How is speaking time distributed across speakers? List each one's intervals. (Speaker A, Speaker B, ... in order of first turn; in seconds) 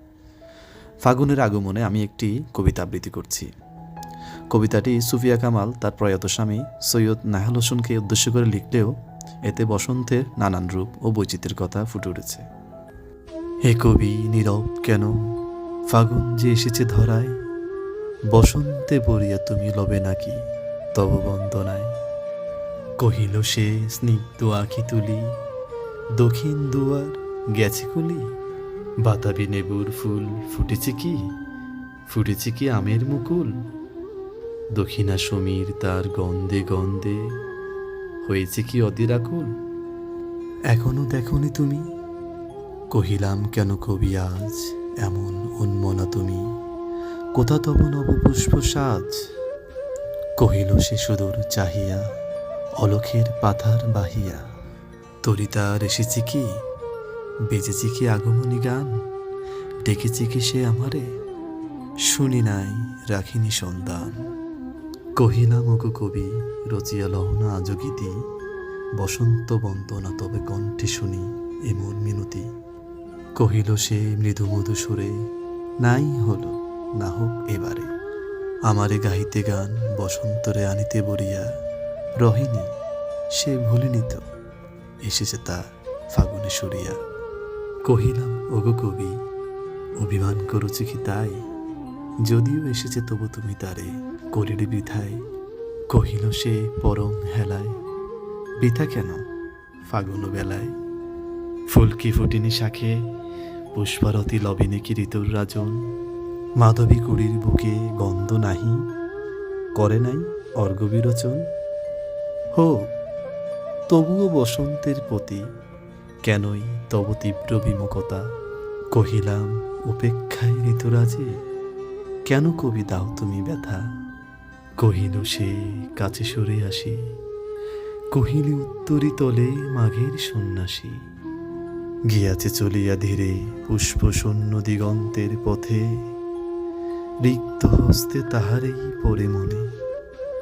Speaker A: 1.0-3.5, 4.5-12.4, 13.7-15.2, 15.9-17.4, 18.3-20.4, 20.9-21.9, 23.0-25.3, 26.2-28.3, 29.0-31.2, 32.1-33.5, 34.8-37.2, 38.2-39.5, 40.7-41.8, 42.9-46.5, 47.4-49.1, 50.4-52.0, 52.8-54.5, 55.2-56.6, 57.5-58.9, 59.8-61.1, 62.1-64.3, 65.2-68.3, 69.0-72.5, 73.4-75.2, 75.8-77.9, 78.7-81.5, 82.2-82.7, 83.3-84.3, 85.0-87.0, 87.9-89.2, 90.0-91.4, 92.2-95.2, 95.9-97.8, 98.6-99.2, 99.9-100.8, 101.7-103.1, 103.7-105.9, 106.6-108.9, 109.7-111.5, 112.5-112.9, 113.9-115.5, 116.2-118.3, 118.9-121.3, 122.2-123.8, 124.8-127.2, 128.1-131.0, 132.1-136.0, 137.2-139.7